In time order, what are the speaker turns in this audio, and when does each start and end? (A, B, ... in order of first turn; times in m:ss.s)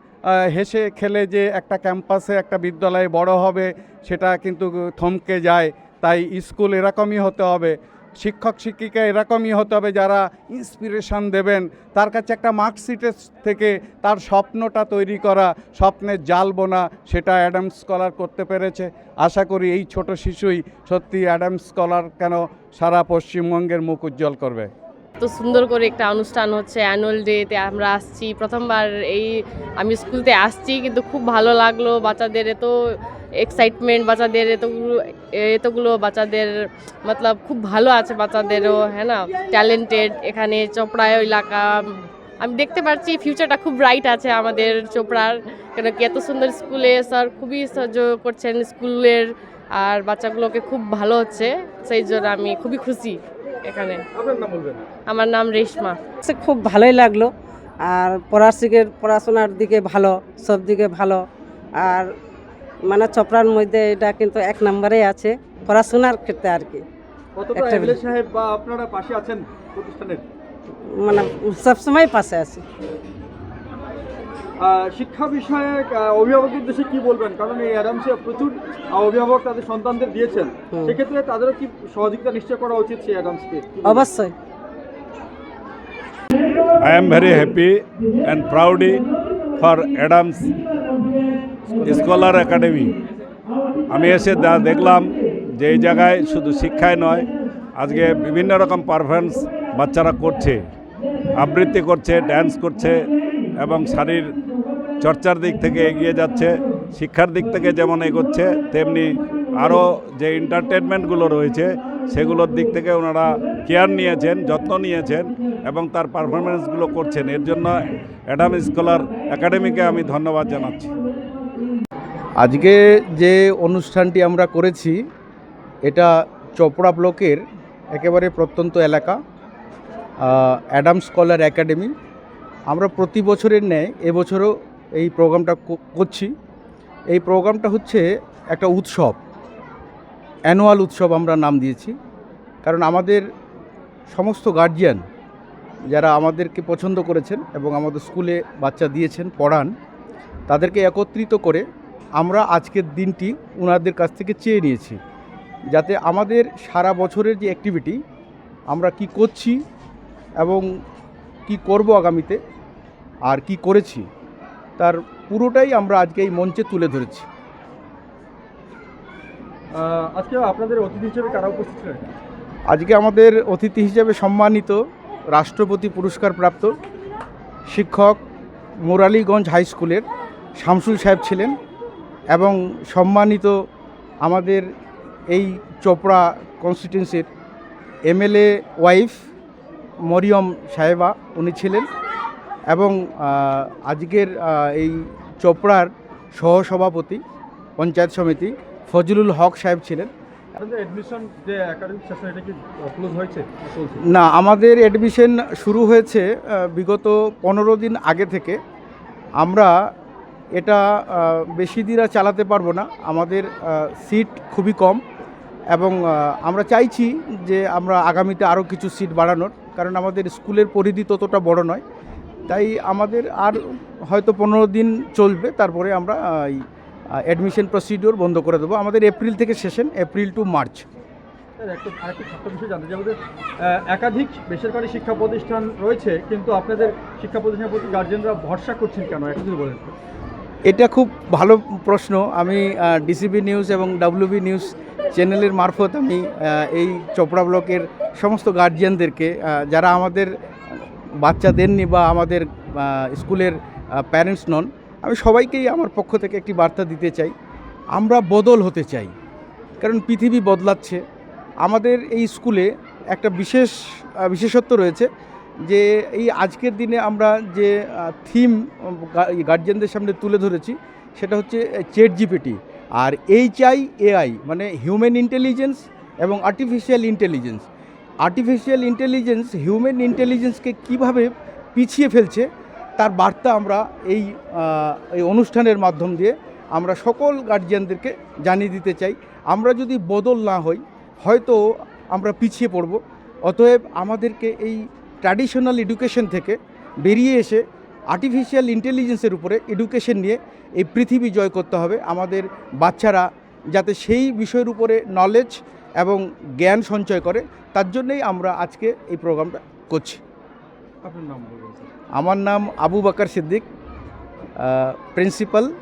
0:00.2-0:24.7 A
0:25.2-0:32.7 B
0:33.4-0:36.5 B
0:37.0-0:49.2 B
0:49.8-0:54.0 B
0:54.1-0:54.8 C
0:55.1-0:56.0 B
0:56.2-0:57.3 D
0:57.8-1:01.2 D
1:01.8-1:02.1 D
1:02.8-1:06.8 D
1:07.3-1:10.2 C
1:07.5-1:08.0 D
1:10.9-1:12.6 D
1:14.6-1:23.9 C
1:20.7-1:21.0 D
1:23.8-1:24.3 D
1:26.8-1:29.0 E
1:29.6-1:30.6 E
1:31.8-1:32.9 E
1:33.9-1:40.6 E
1:41.3-1:44.2 E
1:45.0-1:57.7 E
1:58.3-2:00.9 E
2:02.4-2:05.0 F
2:05.9-2:07.4 F
2:07.9-2:09.2 F
2:10.2-2:11.9 F
2:12.7-2:16.3 F
2:17.1-2:19.2 F
2:20.5-2:21.9 F
2:22.6-2:23.2 F
2:24.1-2:25.0 F
2:25.9-2:29.7 F
2:30.5-2:31.6 F
2:32.2-2:35.0 F
2:35.7-2:38.0 F
2:38.7-2:39.6 F
2:40.4-2:40.7 F
2:41.5-2:42.4 F
2:43.2-2:44.0 F
2:44.8-2:47.2 F
2:49.7-2:52.1 C
2:52.7-2:54.8 F
2:55.3-2:56.8 F
2:57.7-2:58.2 F
2:58.8-3:00.0 F
3:00.6-3:01.5 F
3:02.3-3:03.6 F
3:04.2-3:04.6 F
3:05.3-3:07.3 F
3:08.1-3:09.1 F
3:10.0-3:11.9 F
3:12.7-3:17.2 F
3:17.8-3:20.1 F
3:20.6-3:24.0 C
3:24.1-3:28.6 F
3:29.4-3:29.7 F
3:30.6-3:35.0 F
3:35.7-3:41.8 F
3:42.5-3:46.6 F
3:47.2-3:50.8 F
3:51.6-3:59.9 C
4:00.7-4:17.3 F
4:18.0-4:19.1 F
4:19.8-4:21.0 F
4:21.6-4:25.1 F
4:25.6-4:37.6 F
4:38.2-4:42.5 F
4:43.0-5:10.2 F
5:11.0-5:11.9 C
5:12.2-5:13.6 F
5:14.6-5:15.7 F